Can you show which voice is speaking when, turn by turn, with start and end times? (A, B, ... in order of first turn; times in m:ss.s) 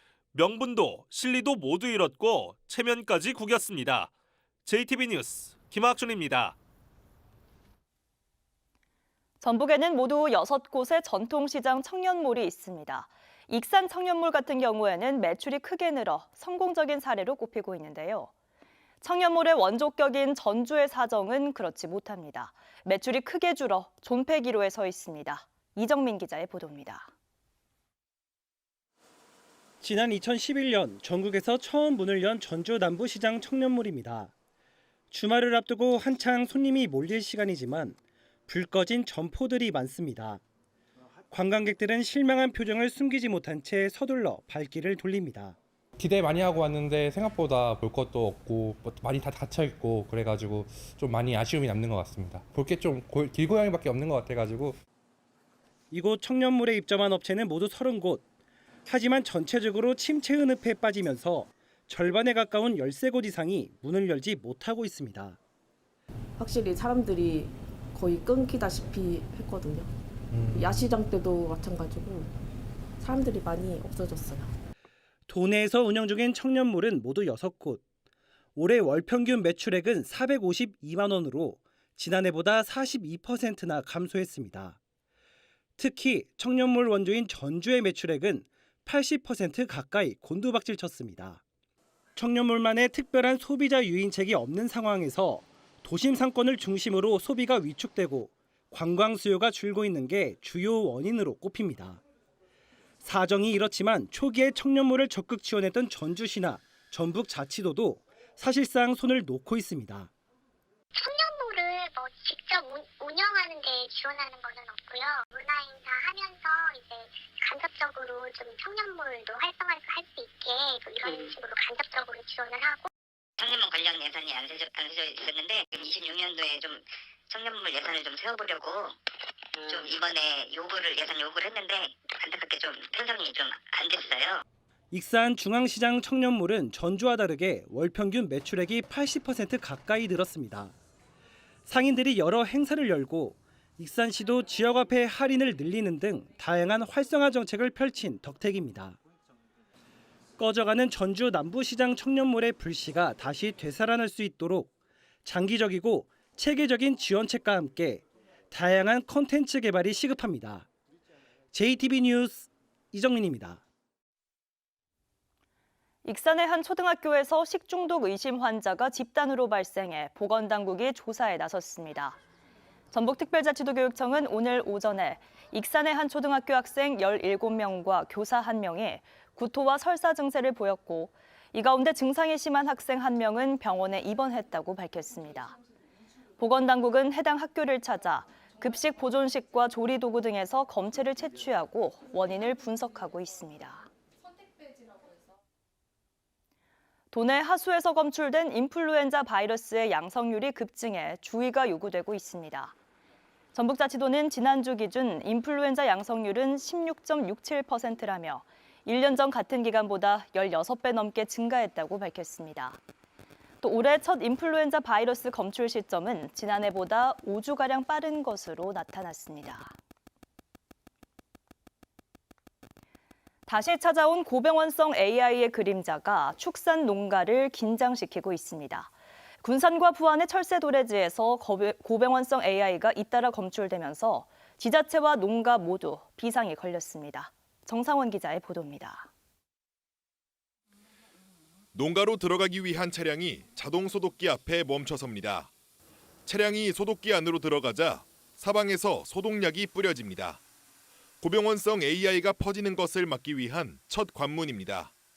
0:00.3-0:04.1 A
0:04.7-0:06.6 A
0:09.4-0:18.3 B
0:19.0-0:27.1 B
0:29.8-0:34.3 C
0:35.1-0:40.4 C
0:41.3-0:45.6 C
0:46.0-0:54.8 D
0:55.9-0:58.2 C
0:58.9-1:05.4 C
1:06.4-1:09.9 E
1:10.3-1:10.9 D
1:10.5-1:12.3 E
1:13.0-1:14.5 E
1:15.3-1:17.8 C
1:18.6-1:24.8 C
1:25.8-1:31.4 C
1:32.2-1:42.0 C
1:43.0-1:50.1 C
1:51.0-2:02.9 F
2:03.4-2:09.0 G
2:09.6-2:14.4 G
2:14.9-2:20.7 C
2:21.7-2:29.0 C
2:30.4-2:34.7 C
2:35.2-2:40.7 C
2:41.5-2:43.6 C
2:46.0-2:52.2 B
2:52.9-3:05.6 B
3:06.4-3:13.9 B
3:17.1-3:22.7 B
3:23.5-3:32.8 B
3:33.6-3:39.8 B
3:43.5-3:59.1 B
4:01.7-4:05.5 H
4:06.3-4:10.4 H
4:11.2-4:14.9 H